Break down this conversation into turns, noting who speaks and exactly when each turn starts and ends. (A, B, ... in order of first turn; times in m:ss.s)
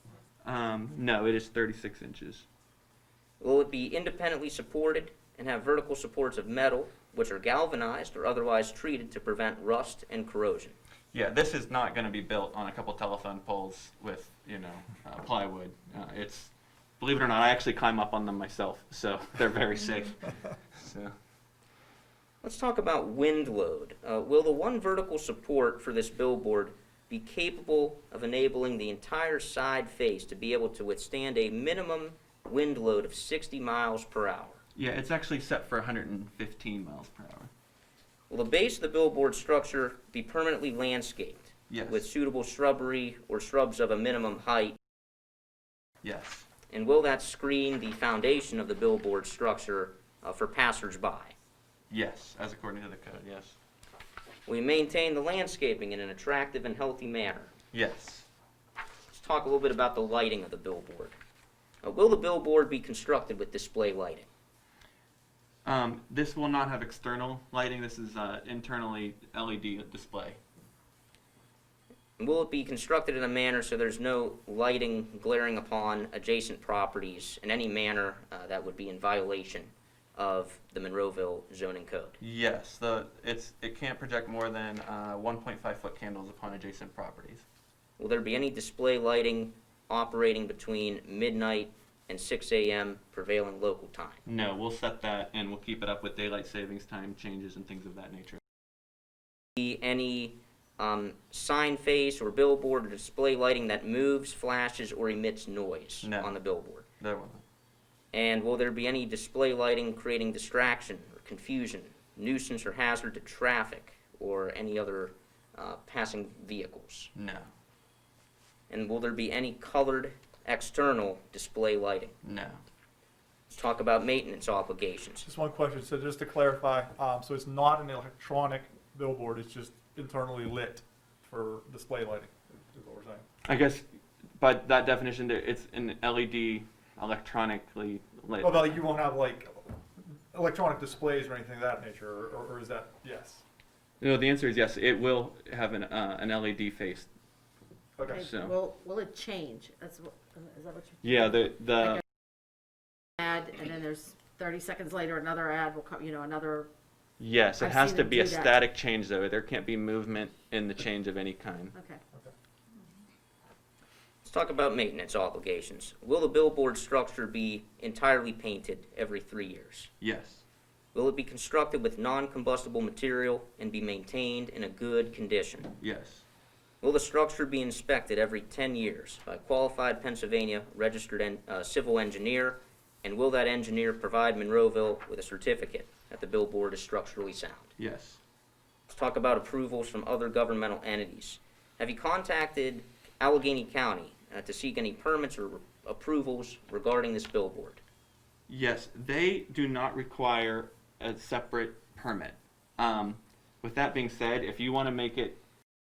0:00.4-0:02.5 A
0:03.4-0:10.8 B
0:11.1-0:21.1 A
0:22.4-0:34.6 B
0:34.8-0:37.5 A
0:38.3-0:44.8 B
0:41.7-0:42.1 A
0:46.0-0:46.5 A
0:46.7-0:51.4 B
0:51.9-0:53.6 A
0:54.5-0:57.5 B
0:57.7-0:58.3 A
0:59.1-1:01.2 B
1:01.8-1:04.3 B
1:05.6-1:10.4 A
1:12.2-1:22.2 B
1:22.2-1:27.4 A
1:28.0-1:34.2 B
1:34.3-1:38.4 A
1:39.6-1:46.9 B
1:46.0-1:46.4 A
1:47.0-1:47.4 A
1:48.1-1:57.1 B
1:57.2-1:57.5 A
1:58.7-2:02.2 B
2:02.2-2:02.6 A
2:03.5-2:05.3 B
2:05.2-2:13.2 C
2:13.5-2:13.8 A
2:14.4-2:18.8 A
2:18.4-2:19.7 C
2:20.3-2:23.4 C
2:24.0-2:27.1 A
2:28.0-2:28.3 C
2:28.1-2:31.4 D
2:28.1-2:28.6 A
2:31.0-2:32.0 A
2:33.2-2:36.7 D
2:37.2-2:41.7 A
2:37.6-2:38.5 D
2:41.7-2:42.0 D
2:44.2-2:49.9 B
2:50.0-2:50.4 A
2:50.9-2:55.7 B
2:55.8-2:56.2 A
2:56.8-3:07.7 B
3:07.8-3:08.2 A
3:08.9-3:17.8 B
3:18.5-3:25.4 A